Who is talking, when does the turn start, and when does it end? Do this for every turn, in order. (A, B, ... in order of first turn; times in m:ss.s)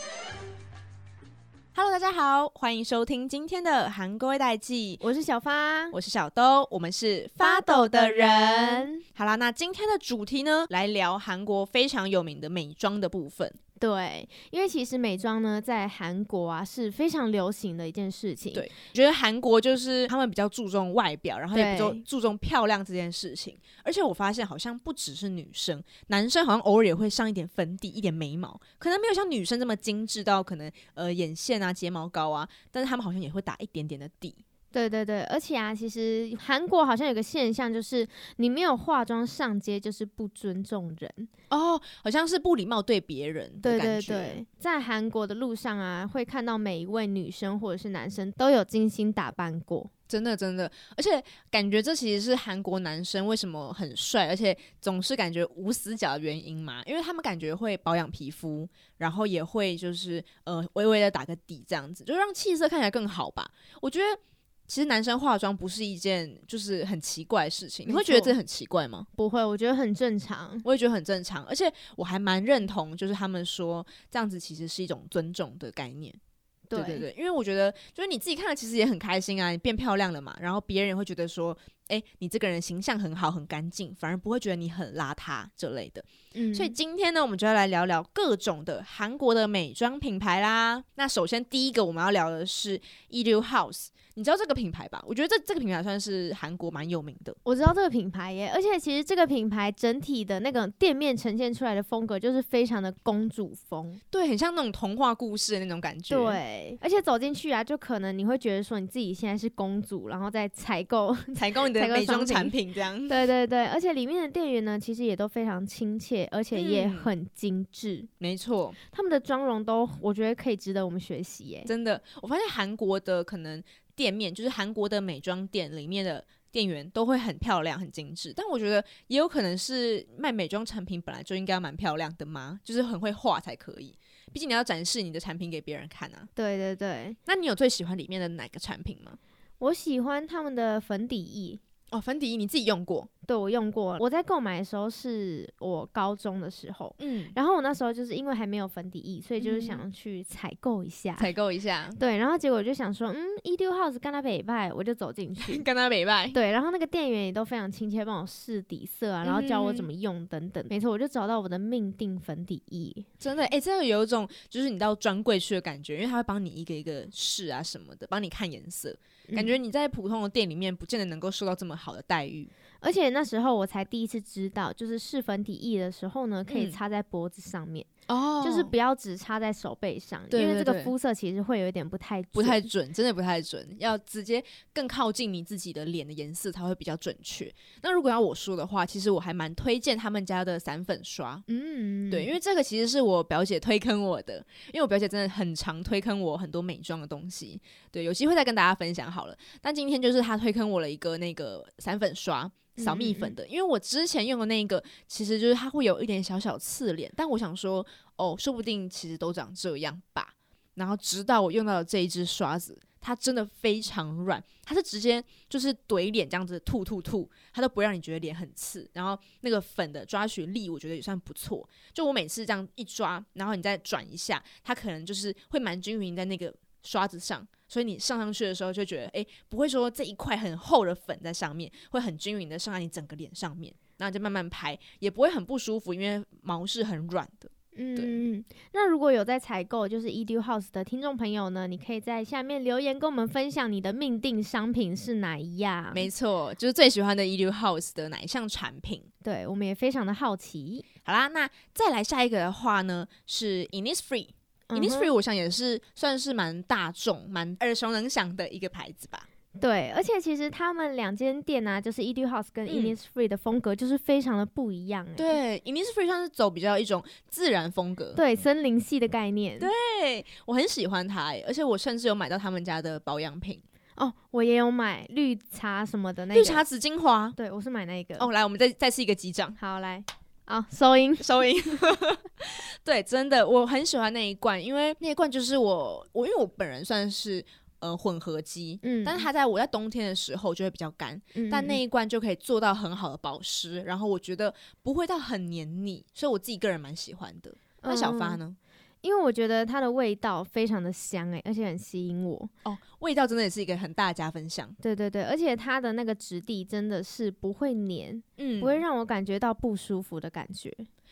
0:01.7-0:05.1 A
0:05.0-0:06.0 B
0:05.9-0:13.6 A
0:07.4-0:09.0 B
0:13.8-0:18.7 B
0:18.5-0:34.4 A
0:21.5-0:22.0 B
0:34.7-0:41.3 B
0:41.5-0:44.4 A
0:43.6-0:49.9 B
0:50.1-1:09.1 A
1:07.9-1:08.4 B
1:09.2-1:10.6 B
1:10.6-1:16.2 A
1:16.7-1:17.0 B
1:16.7-1:37.4 A
1:26.3-1:26.8 B
1:37.4-1:44.0 B
1:44.1-1:46.4 A
1:46.1-1:52.6 B
1:51.3-1:53.3 A
1:53.1-1:58.1 B
1:56.5-1:57.1 A
1:58.2-1:58.8 A
1:58.9-2:01.7 B
2:01.7-2:16.3 A
2:16.4-2:17.2 B
2:17.3-2:19.2 A
2:19.6-2:21.6 B
2:21.9-2:23.1 A
2:23.2-2:31.3 B
2:27.0-2:27.3 A
2:29.4-2:29.8 A
2:31.2-2:32.0 A
2:32.0-2:35.7 B
2:35.4-2:36.4 A
2:36.3-2:43.1 B
2:39.2-2:39.9 A
2:43.2-2:52.5 A
2:49.3-2:49.6 B
2:52.8-2:57.9 B
2:56.5-2:56.8 A
2:58.1-2:58.7 A
2:58.4-3:02.6 B
3:00.3-3:00.9 A
3:02.3-3:11.4 A
3:11.5-3:12.3 B
3:12.1-3:58.2 A
3:22.8-3:23.3 B
3:57.7-4:06.1 B
4:05.9-4:09.1 A
4:09.2-4:10.9 B
4:11.0-4:19.3 A
4:14.7-4:15.1 B
4:19.6-4:25.4 B
4:22.7-4:22.9 A
4:25.2-4:28.2 A
4:28.1-4:29.7 B
4:29.6-4:33.6 A
4:34.0-4:36.6 B
4:36.3-4:37.4 A
4:37.4-4:38.3 B
4:38.2-4:39.6 A
4:39.6-4:41.4 B
4:41.2-4:58.6 A
4:48.8-4:49.3 B
4:51.3-4:51.8 B
4:57.8-4:58.4 B
4:59.0-5:02.5 B
5:02.6-5:04.8 A
5:04.8-5:10.9 B
5:08.4-5:08.8 A